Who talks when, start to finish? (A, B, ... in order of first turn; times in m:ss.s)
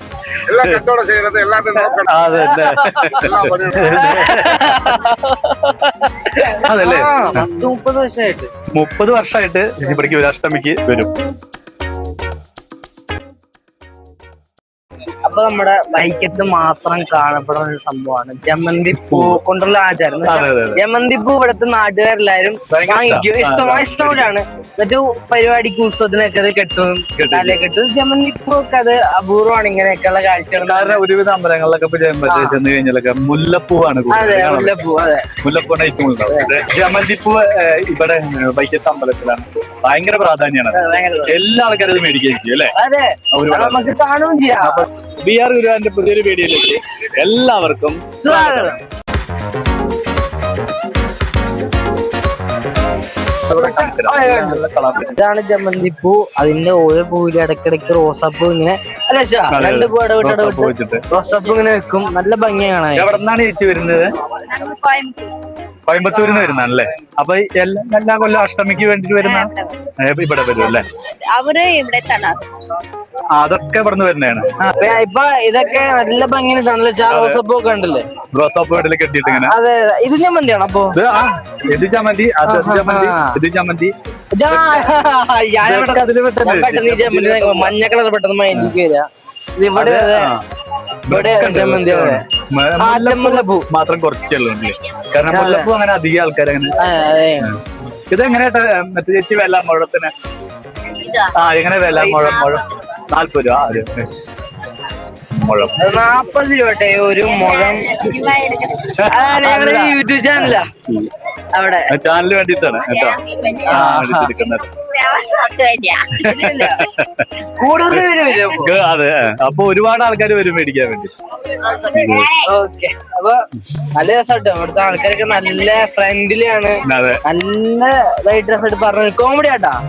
0:00.5-0:02.1 A
0:00.5-0:00.8 B
0:02.1-0:05.1 B
0:02.4-0:08.5 C
0:03.2-0:04.2 A
0:06.5-0:07.5 B
0:08.7-0:11.1 B
0:15.2-0:31.0 C
0:18.9-0:19.4 B
0:20.2-0:20.8 B
0:22.7-0:24.3 B
0:27.2-0:27.6 B
0:30.6-0:34.8 B
0:32.3-0:32.6 C
0:34.1-0:35.3 C
0:35.4-0:40.8 B
0:40.7-0:41.4 C
0:41.3-0:42.7 B
0:42.8-0:44.9 C
0:43.3-0:44.0 B
0:44.6-0:48.8 B
0:48.2-0:48.8 C
0:53.5-0:55.2 B
0:53.5-1:03.1 C
0:59.5-1:01.0 B
1:03.0-1:04.1 B
1:04.4-1:05.3 D
1:05.9-1:10.9 B
1:06.2-1:06.8 C
1:09.2-1:09.8 D
1:11.0-1:12.4 D
1:13.3-1:15.0 B
1:14.6-1:18.0 C
1:17.1-1:17.4 B
1:18.3-1:19.6 B
1:19.2-1:21.0 C
1:20.9-1:23.9 B
1:22.4-1:23.4 C
1:24.3-1:29.1 C
1:24.5-1:24.9 B
1:25.6-1:27.7 B
1:28.5-1:28.8 B
1:29.6-1:30.3 C
1:29.8-1:30.4 B
1:31.1-1:36.8 B
1:31.1-1:32.2 C
1:32.8-1:33.7 C
1:35.3-1:35.7 C
1:36.8-1:37.5 C
1:38.1-1:40.1 B
1:41.3-1:44.2 B
1:41.9-1:42.6 C
1:45.3-1:46.0 B
1:45.8-1:48.2 C
1:47.7-1:49.0 D
1:49.0-1:51.1 B
1:49.0-1:50.7 C
1:51.5-1:51.9 C
1:51.9-1:54.7 B
1:53.0-1:53.7 D
1:53.7-1:54.3 C
1:54.7-1:56.1 D
1:56.2-1:56.9 C
1:56.2-1:57.3 B
1:57.5-1:58.7 C
1:57.9-2:01.2 B
2:01.7-2:02.3 B
2:02.3-2:09.8 C
2:06.9-2:07.2 B